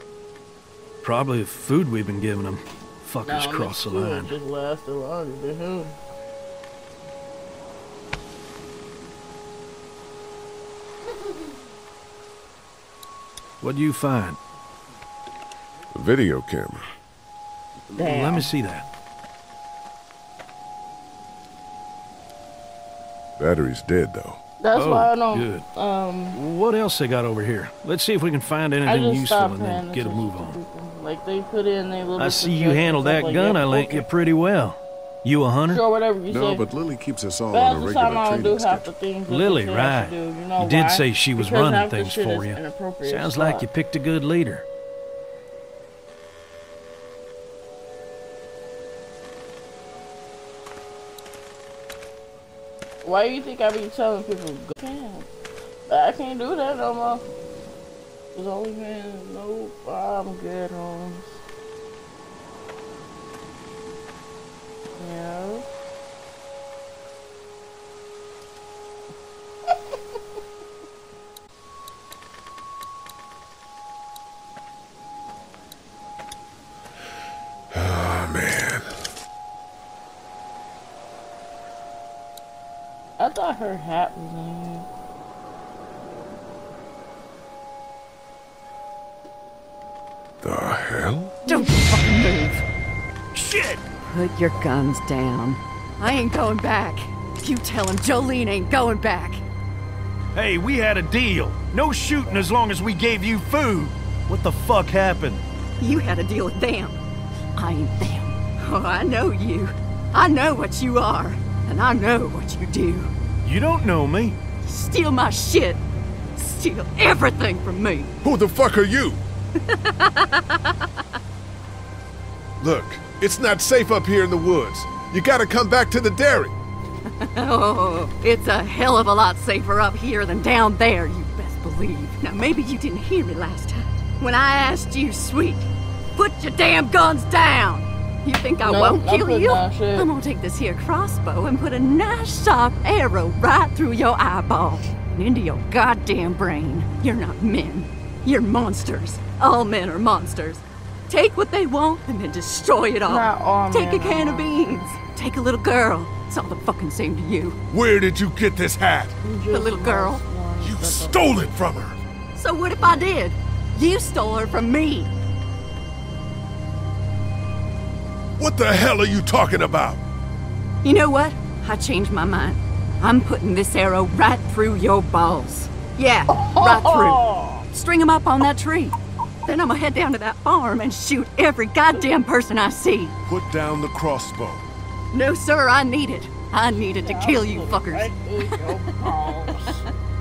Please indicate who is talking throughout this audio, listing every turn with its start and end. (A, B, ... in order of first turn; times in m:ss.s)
0:01.0-0:04.3 A
0:03.2-0:05.9 B
0:13.6-0:14.4 A
0:15.9-0:16.9 C
0:17.9-0:18.5 B
0:18.0-0:18.8 A
0:23.4-0:24.4 C
0:24.6-0:26.4 B
0:24.7-0:25.6 A
0:26.3-0:30.6 A
0:28.8-0:34.1 B
0:32.2-0:35.8 A
0:35.7-0:36.7 B
0:36.3-0:38.9 C
0:37.5-0:43.7 B
0:39.3-0:44.6 A
0:53.0-0:55.3 B
0:55.9-0:57.2 B
0:58.3-1:01.4 B
1:04.9-1:05.6 B
1:17.7-1:18.9 C
1:23.2-1:24.9 B
1:30.4-1:31.4 C
1:31.4-1:32.6 D
1:33.3-1:33.8 A
1:34.1-1:39.4 D
1:40.3-1:45.4 A
1:45.8-1:47.0 D
1:47.6-1:53.1 D
1:53.4-1:54.4 A
1:54.6-1:55.8 D
1:56.4-1:58.1 D
1:58.2-1:59.2 C
1:59.7-2:00.7 D
2:02.6-2:06.5 C
2:07.3-2:37.6 D
2:18.6-2:20.1 B
2:33.1-2:34.9 B
2:37.7-2:39.2 C
2:39.2-2:41.6 B
2:39.5-2:40.2 D
2:40.6-2:42.0 C
2:42.3-2:45.1 D
2:48.4-2:50.0 C
2:50.8-2:58.9 D
2:56.3-2:57.6 B
2:59.4-3:03.1 D
3:03.3-3:04.7 C
3:05.1-3:09.8 D
3:06.8-3:09.8 B